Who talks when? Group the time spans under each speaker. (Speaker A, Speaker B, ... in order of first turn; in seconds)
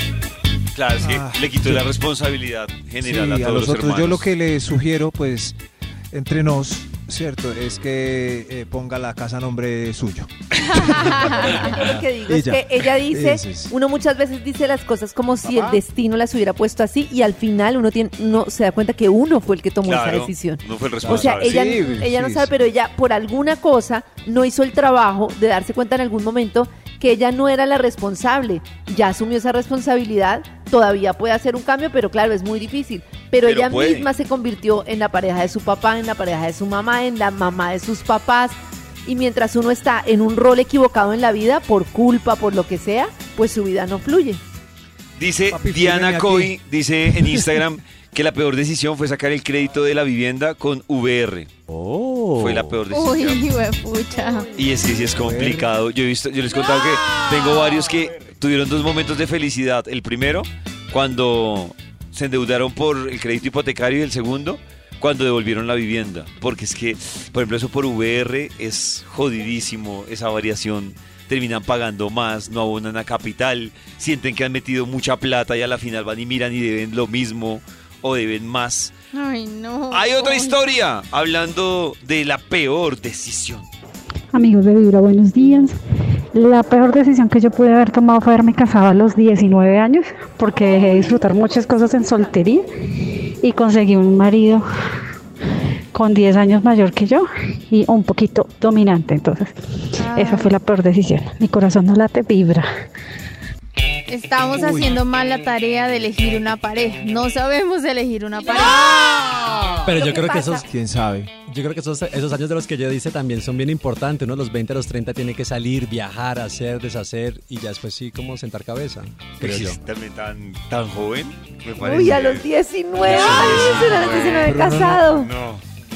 Speaker A: 0.7-4.3, 19.9-21.6, 33.4-34.1, 45.2-51.5, 52.4-53.6, 54.5-78.9, 79.9-83.7, 119.4-122.5, 123.0-124.6, 125.1-125.6
Speaker B: 1.0-1.9, 3.0-5.6, 6.1-13.7, 15.4-15.8, 21.0-22.5, 45.5-46.5, 47.1-47.6, 55.1-55.7, 104.5-104.9, 110.6-111.4, 124.5-125.3
Speaker C: 10.8-11.7, 52.9-54.5, 79.1-80.8, 100.0-100.5, 104.1-109.3
Speaker D: 11.4-44.4, 121.8-125.3
Speaker E: 51.7-52.8, 109.8-110.7, 111.5-119.8, 123.2-123.7
Speaker F: 84.3-85.8, 86.3-94.7, 95.9-99.5, 100.1-102.7